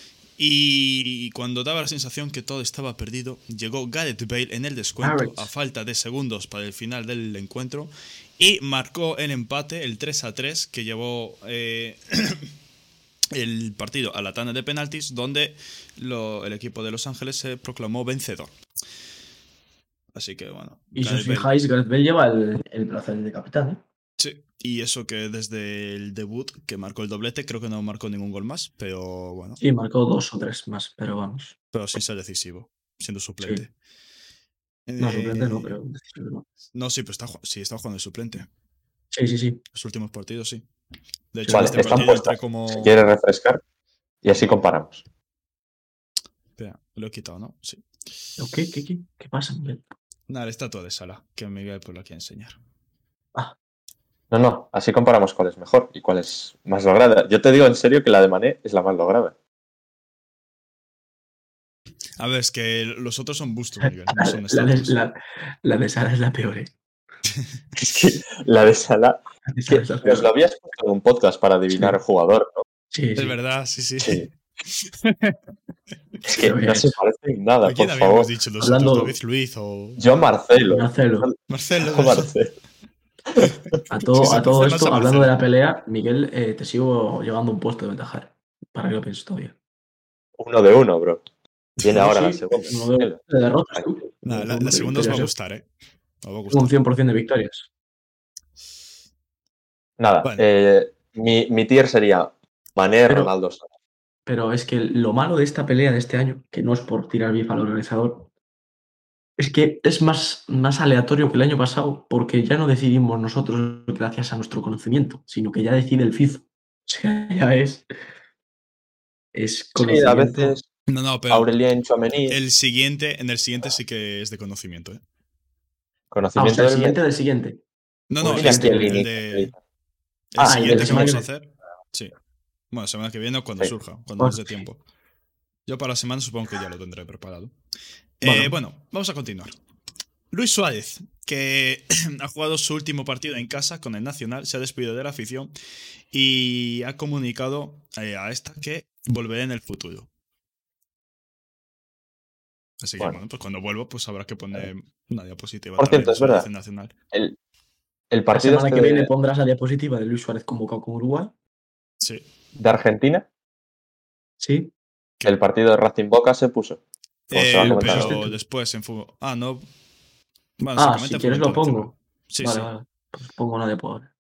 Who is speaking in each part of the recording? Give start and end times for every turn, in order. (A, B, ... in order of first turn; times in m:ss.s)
0:00.4-0:12.5 A
0:05.0-0:05.5 B
0:13.3-0:18.5 A
0:20.1-0:21.5 A
0:20.9-0:23.8 B
0:24.2-0:29.6 A
0:29.6-0:31.6 B
0:31.7-0:33.7 A
0:34.9-0:35.8 A
0:35.0-0:36.4 B
0:36.7-0:38.5 A
0:39.1-0:39.6 B
0:39.7-0:40.7 A
0:41.3-0:43.0 A
0:41.4-0:42.2 B
0:41.5-0:43.6 C
0:44.2-0:45.0 C
0:46.6-0:47.8 A
0:48.4-0:49.9 B
0:50.3-0:52.6 A
0:54.3-0:59.3 C
1:02.2-1:05.0 A
1:04.1-1:06.7 B
1:07.8-1:12.6 C
1:09.5-1:10.3 B
1:12.9-1:13.4 B
1:13.2-1:15.4 A
1:14.0-1:14.3 C
1:16.2-1:16.9 B
1:16.3-1:18.3 C
1:17.6-1:20.0 A
1:18.6-1:19.2 B
1:20.0-1:22.5 C
1:20.7-1:21.3 B
1:21.5-1:22.4 A
1:23.4-1:23.8 C
1:23.4-1:25.3 A
1:23.9-1:29.6 B
1:30.4-1:31.2 C
1:31.8-1:33.2 C
1:31.8-1:35.3 B
1:34.2-1:35.7 A
1:36.2-1:36.8 A
1:36.5-1:37.7 B
1:40.0-1:43.7 C
1:43.1-1:43.3 B
1:44.3-1:48.3 B
1:49.4-1:57.9 B
1:59.3-2:00.6 B
1:59.8-2:00.7 C
2:00.9-2:01.5 A
2:01.3-2:02.4 C
2:02.3-2:05.0 A
2:06.1-2:07.0 C
2:06.4-2:07.6 B
2:08.1-2:09.5 A
2:08.2-2:09.0 B
2:08.3-2:09.5 C
2:10.3-2:12.2 A
2:10.4-2:11.1 C
2:10.4-2:11.3 B
2:12.7-2:14.8 A
2:14.2-2:14.7 B
2:15.7-2:17.5 A
2:18.2-2:19.5 A
2:18.2-2:18.6 B
2:20.3-2:25.5 A
2:26.1-2:30.1 A
2:32.8-2:36.9 A
2:35.8-2:36.5 C
2:38.1-2:39.1 C
2:38.3-2:41.3 B
2:42.6-2:43.3 C
2:44.4-2:44.7 B
2:45.2-2:46.8 C
2:47.3-2:49.7 A
2:47.3-2:48.2 C
2:47.6-2:48.4 B
2:50.6-2:52.7 A
2:50.8-2:54.1 B